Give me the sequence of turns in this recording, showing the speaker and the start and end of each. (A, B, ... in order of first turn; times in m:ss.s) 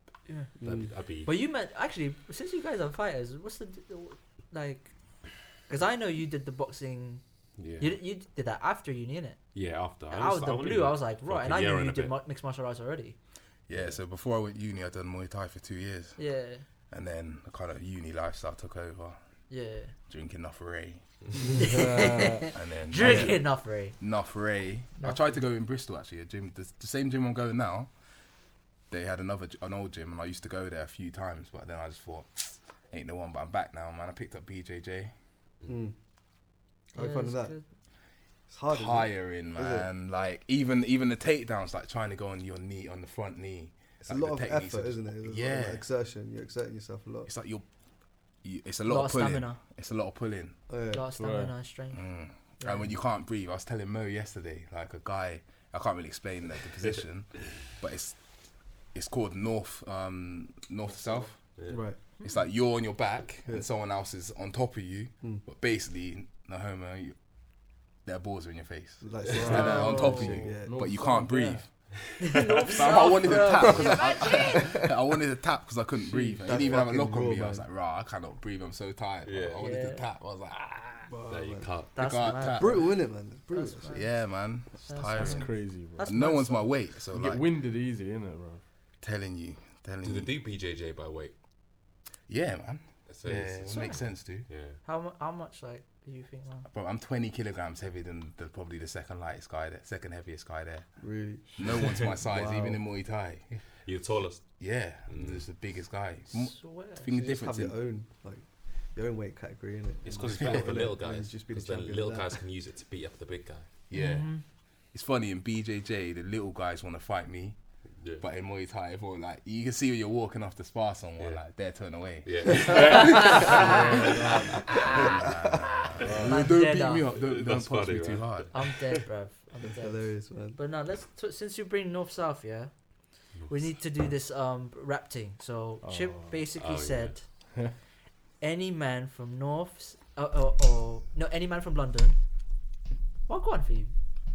0:00.6-0:00.9 A
0:00.6-0:01.3 B
0:01.2-0:04.9 C
0:05.7-0:07.2 C
0:07.6-0:08.0 B
0:07.8-0:09.4 C
0:09.5-0:12.2 B
0:10.1-0:13.2 C
0:13.7-0:16.2 D
0:13.7-0:14.0 B
0:16.2-0:16.6 C
0:16.9-0:19.2 D
0:19.5-0:19.9 C
0:20.1-0:21.0 D
0:21.4-0:22.4 A
0:21.6-0:24.0 C
0:22.5-0:27.9 D
0:25.0-0:25.4 C
0:28.9-0:35.1 D
0:35.7-0:35.9 A
0:36.9-0:37.6 A
0:36.9-0:37.6 C
0:38.5-0:39.9 A
0:38.7-0:45.8 D
0:44.0-0:47.3 A
0:47.2-0:47.6 D
0:48.4-0:50.6 D
0:48.8-0:49.6 C
0:50.7-0:51.0 A
0:50.9-0:52.0 C
0:51.2-0:51.5 E
0:51.9-0:58.2 D
0:52.6-0:52.9 C
0:58.9-1:01.4 D
1:01.6-1:01.8 B
1:01.7-1:02.0 A
1:02.2-1:07.2 D
1:08.0-1:11.7 D
1:09.0-1:11.0 A
1:09.3-1:11.6 E
1:09.5-1:10.2 C
1:12.2-1:14.8 C
1:12.2-1:20.6 D
1:13.3-1:14.9 A
1:16.1-1:16.5 E
1:16.4-1:17.6 A
1:19.2-1:19.7 B
1:19.6-1:20.0 C
1:20.3-1:22.0 B
1:21.1-1:21.7 A
1:22.0-1:22.9 D
1:22.0-1:23.0 C
1:22.6-1:24.0 A
1:23.5-1:24.2 C
1:23.8-1:27.5 D
1:24.8-1:26.7 C
1:25.1-1:26.0 E
1:27.1-1:28.6 E
1:29.0-1:30.4 D
1:30.0-1:31.3 B
1:32.3-1:34.5 D
1:33.1-1:34.8 B
1:33.7-1:34.0 C
1:34.8-1:36.7 C
1:36.6-1:40.9 D
1:41.0-1:42.8 A
1:41.6-1:43.6 D
1:41.6-1:42.0 B
1:43.8-1:45.4 B
1:44.6-1:47.8 D
1:46.3-1:47.1 C
1:47.1-1:52.4 A
1:50.0-1:53.7 B
1:53.9-1:54.3 D
1:53.9-1:54.4 C
1:54.9-1:57.6 D
1:58.2-2:08.5 D
2:02.2-2:05.3 B
2:02.6-2:04.0 C
2:03.4-2:06.2 A
2:06.0-2:06.4 B
2:06.2-2:07.1 C
2:07.1-2:08.8 B
2:08.5-2:12.7 C
2:09.6-2:10.6 A
2:13.5-2:17.2 C
2:15.8-2:16.4 E
2:16.6-2:17.1 B
2:18.4-2:22.2 C
2:23.3-2:23.9 C